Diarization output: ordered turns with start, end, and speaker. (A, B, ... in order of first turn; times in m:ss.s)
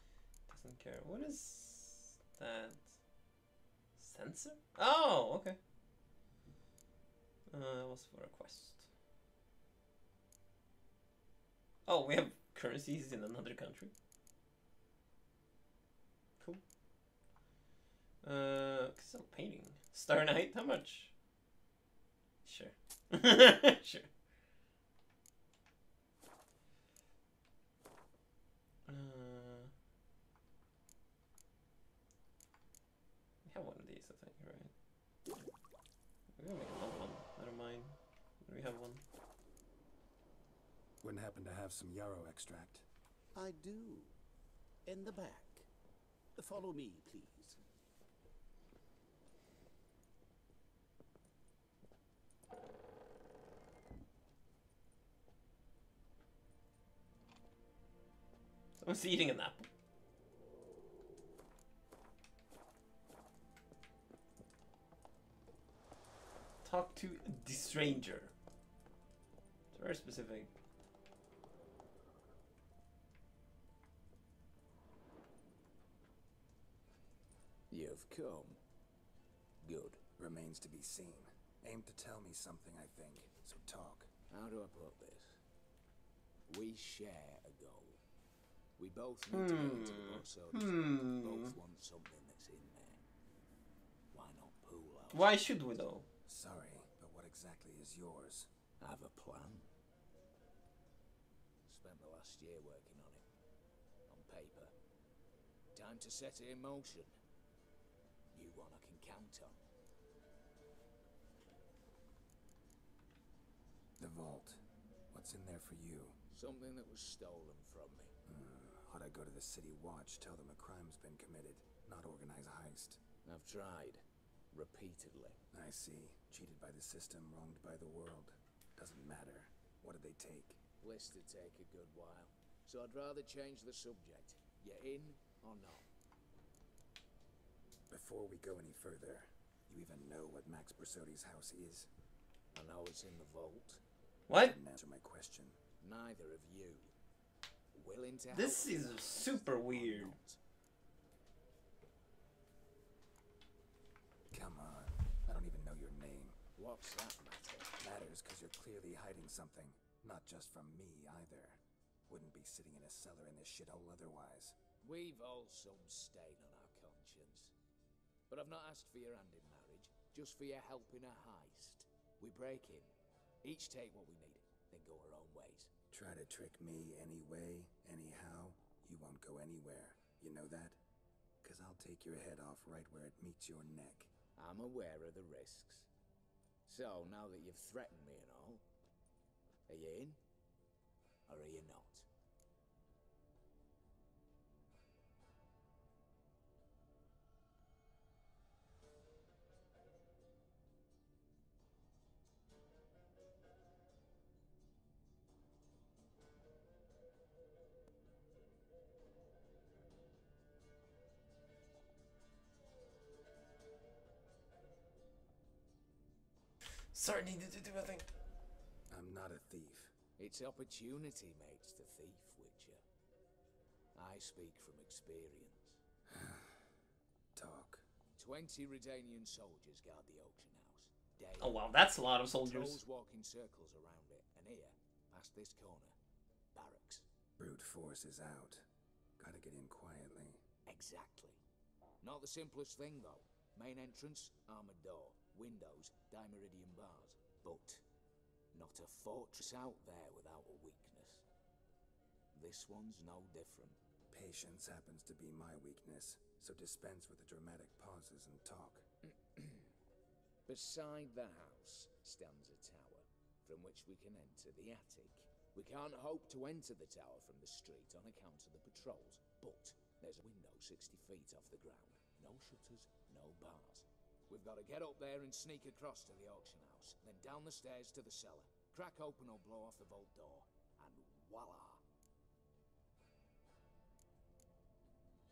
0:00.5-0:02.9 A
0:04.0-0:05.6 A
0:07.5-0:08.9 A
0:11.9-0:13.9 A
0:18.2-0:21.1 A
0:22.4-0:24.1 A
0:28.9-0:29.7 A
0:33.4-0:34.7 A
0:36.4-0:39.0 A
0:41.0-0:42.9 B
0:43.3-0:44.1 C
0:44.9-0:45.7 C
0:46.4-0:47.6 C
0:58.8-0:59.7 A
1:06.6-1:08.3 A
1:09.7-1:10.5 A
1:17.7-1:18.6 D
1:19.6-1:20.0 D
1:20.2-1:24.1 B
1:24.3-1:25.4 D
1:26.5-1:28.0 D
1:28.8-1:33.0 D
1:29.3-1:31.6 A
1:34.1-1:35.4 D
1:35.1-1:36.0 A
1:36.2-1:38.5 B
1:38.8-1:39.7 D
1:41.7-1:43.2 D
1:44.1-1:44.7 D
1:45.7-1:47.1 D
1:48.3-1:49.6 D
1:54.0-1:56.2 B
1:56.3-1:58.1 D
1:58.2-2:03.0 B
2:03.2-2:05.4 D
2:05.5-2:10.6 B
2:10.8-2:15.9 D
2:17.9-2:21.9 B
2:22.5-2:23.8 D
2:24.3-2:24.5 A
2:24.3-2:25.6 B
2:25.8-2:26.9 D
2:27.7-2:30.4 D
2:28.3-2:30.2 A
2:34.3-2:36.4 B
2:36.6-2:37.7 D
2:37.8-2:44.6 B
2:44.8-2:47.5 D
2:48.3-2:55.7 D
2:55.9-3:00.8 B
3:01.4-3:04.1 B
3:04.4-3:05.9 D
3:06.6-3:08.6 D
3:09.7-3:10.2 D
3:11.3-3:12.1 D
3:36.9-3:38.1 A
3:38.9-3:39.9 B
3:40.2-3:42.8 D
3:43.9-3:45.8 D
3:46.1-3:46.7 B
3:47.3-3:47.9 B
3:48.2-3:51.8 D
3:51.4-3:52.8 A
3:52.3-3:56.0 D
3:56.5-3:57.0 D
3:57.4-3:58.6 B
3:59.2-4:00.4 B
4:00.6-4:01.4 D
4:02.0-4:07.8 D
4:08.5-4:11.2 D
4:12.3-4:13.8 D
4:14.1-4:18.9 B
4:19.0-4:19.7 D
4:20.5-4:41.8 D